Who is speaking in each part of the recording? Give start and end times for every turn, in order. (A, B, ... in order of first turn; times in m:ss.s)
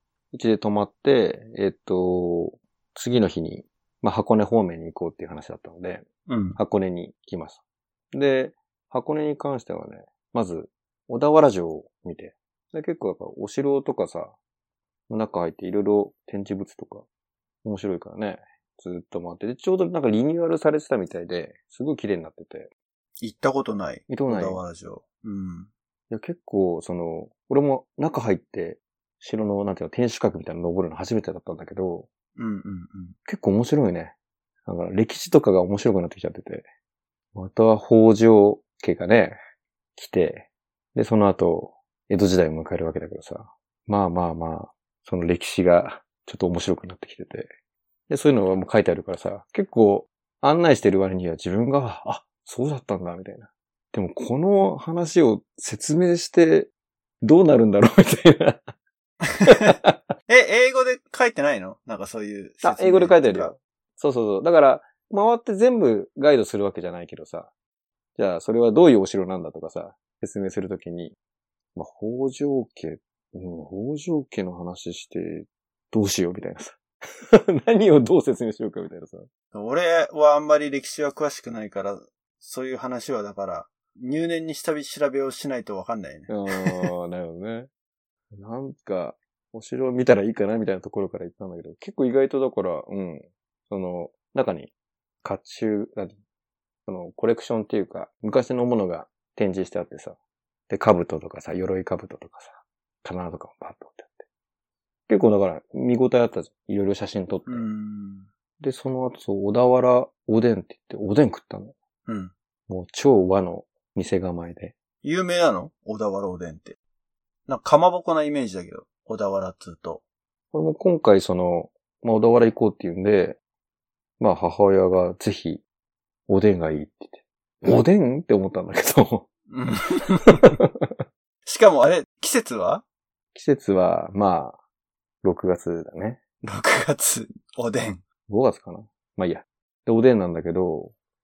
0:00.3-0:07.6 A
0:06.3-0:06.6 B
0:08.1-0:14.4 A
0:15.1-0:17.0 A
0:17.6-0:22.7 A
0:23.2-0:25.7 B
0:24.1-0:24.6 A
0:26.1-0:32.1 A
0:32.4-0:33.2 B
0:33.3-0:36.7 A
0:37.4-0:39.4 A
0:40.0-0:47.5 A
0:48.1-0:56.7 A
0:57.2-0:58.7 A
0:59.2-0:59.8 B
0:59.4-1:00.2 A
1:00.3-1:03.5 B
1:02.6-1:07.5 A
1:08.2-1:11.2 A
1:11.8-1:19.3 A
1:19.5-1:26.9 B
1:26.3-1:27.7 A
1:28.3-1:34.7 A
1:35.2-1:36.2 A
1:36.9-1:40.2 A
1:40.7-1:44.3 A
1:45.1-1:47.7 A
1:47.5-1:48.3 B
1:48.6-1:51.8 A
1:52.1-1:52.3 B
1:52.7-1:54.8 A
1:55.0-1:56.8 B
1:57.5-2:00.0 B
2:00.5-2:03.4 A
2:04.2-2:05.6 A
2:06.3-2:09.3 A
2:09.5-2:10.6 B
2:10.3-2:11.0 A
2:11.5-2:12.8 B
2:13.3-2:14.6 A
2:15.2-2:16.2 A
2:16.4-2:18.0 B
2:18.3-2:20.9 A